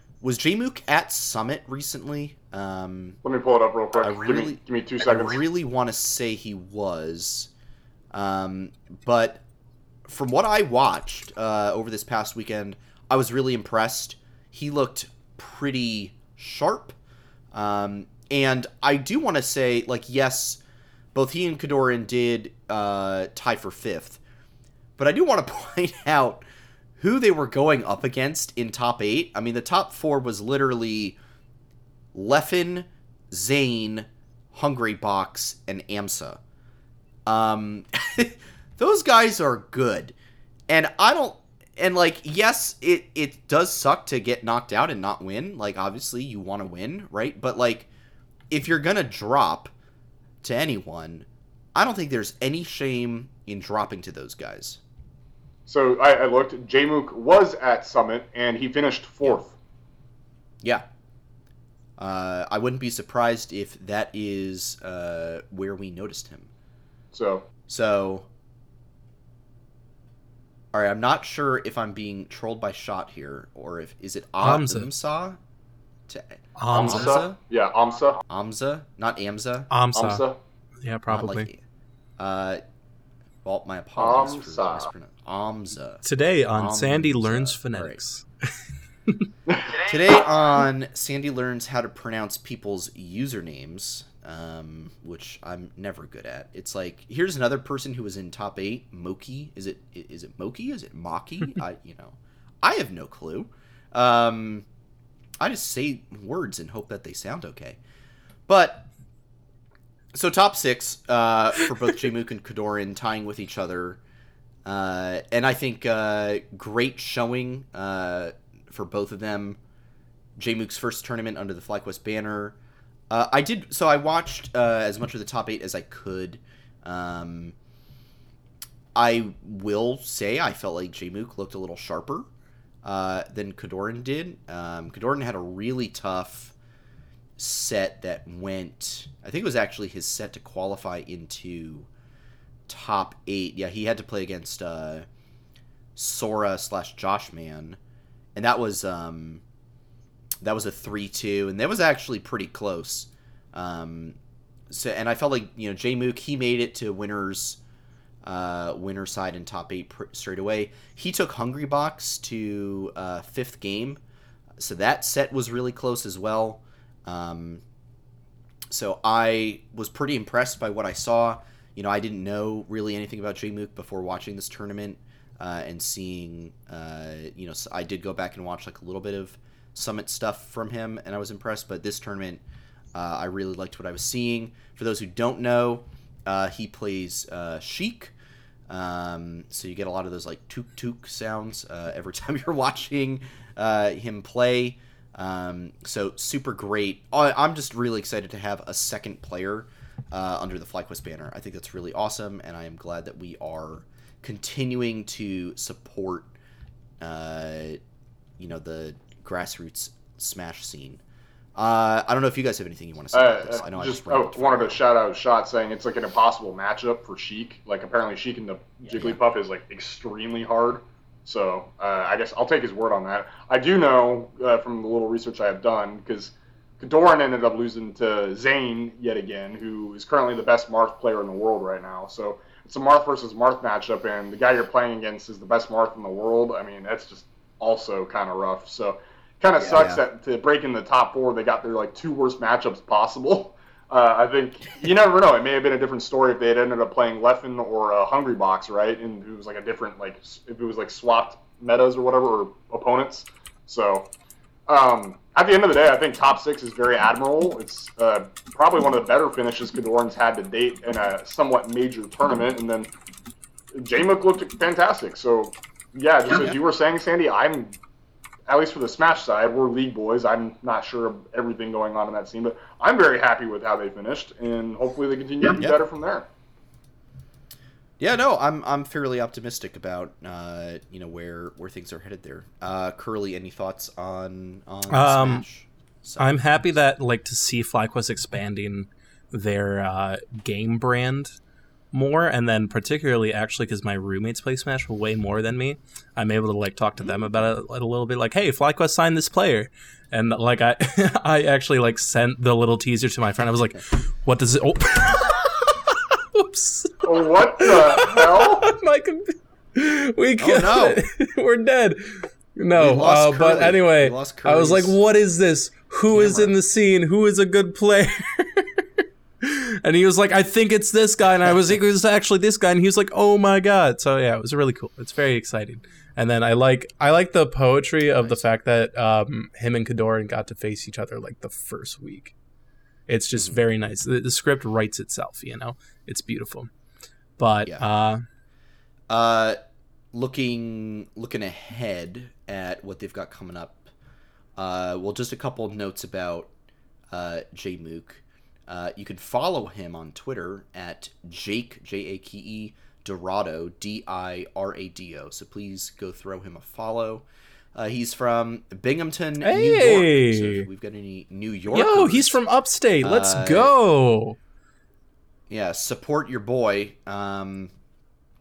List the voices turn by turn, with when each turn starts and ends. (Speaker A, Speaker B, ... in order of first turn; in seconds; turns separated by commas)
Speaker A: 0.2-3.2, Speaker B: 3.2-5.4, Speaker A: 4.0-7.5, Speaker A: 8.1-9.4, Speaker A: 10.1-16.9, Speaker A: 17.5-20.6, Speaker A: 21.1-24.2, Speaker A: 25.0-26.4, Speaker A: 27.0-31.2, Speaker A: 32.1-36.4, Speaker A: 37.2-40.1, Speaker A: 40.7-47.9, Speaker A: 48.5-49.7, Speaker A: 50.4-54.8, Speaker B: 55.6-59.5, Speaker A: 62.0-66.5, Speaker B: 67.1-67.5, Speaker A: 67.7-68.3, Speaker A: 70.7-75.4, Speaker C: 74.4-74.9, Speaker A: 76.1-77.4, Speaker C: 76.6-77.2, Speaker B: 76.7-78.2, Speaker A: 78.3-79.7, Speaker C: 79.7-80.2, Speaker B: 79.9-80.4, Speaker C: 80.8-81.5, Speaker A: 81.1-81.6, Speaker A: 82.2-82.6, Speaker A: 83.4-86.0, Speaker B: 84.0-84.9, Speaker C: 86.0-88.4, Speaker A: 86.5-88.0, Speaker B: 89.5-89.8, Speaker A: 89.8-104.7, Speaker A: 105.4-107.8, Speaker A: 108.5-108.9, Speaker A: 110.1-114.0, Speaker A: 114.7-119.6, Speaker A: 120.4-122.5, Speaker A: 123.1-127.5, Speaker A: 128.9-132.3, Speaker A: 132.8-136.5, Speaker A: 137.4-141.9, Speaker A: 142.7-145.1, Speaker A: 145.9-147.8, Speaker A: 148.3-149.4, Speaker A: 150.4-154.2, Speaker A: 154.7-157.6, Speaker A: 158.2-164.0, Speaker A: 164.6-167.6, Speaker A: 168.7-182.4, Speaker A: 182.9-188.1, Speaker A: 188.7-206.3, Speaker A: 207.0-207.8, Speaker A: 208.4-211.0, Speaker A: 211.6-214.8, Speaker B: 213.1-254.1, Speaker A: 218.9-219.2, Speaker A: 239.6-240.0, Speaker B: 254.7-262.9, Speaker B: 263.7-267.7, Speaker B: 268.5-276.3, Speaker A: 278.0-286.8, Speaker C: 284.9-285.4, Speaker C: 286.2-291.4, Speaker C: 291.9-332.3, Speaker A: 297.0-297.5, Speaker B: 307.0-308.7, Speaker A: 310.4-311.0, Speaker A: 312.8-314.9, Speaker A: 316.1-316.6, Speaker A: 328.2-328.5, Speaker C: 333.1-336.7, Speaker A: 333.4-333.6, Speaker C: 337.4-338.2, Speaker A: 339.1-339.6, Speaker A: 340.1-343.9, Speaker A: 344.6-346.5, Speaker A: 347.1-362.4, Speaker C: 359.4-360.7, Speaker C: 361.7-364.4, Speaker A: 363.0-363.7, Speaker A: 365.5-367.7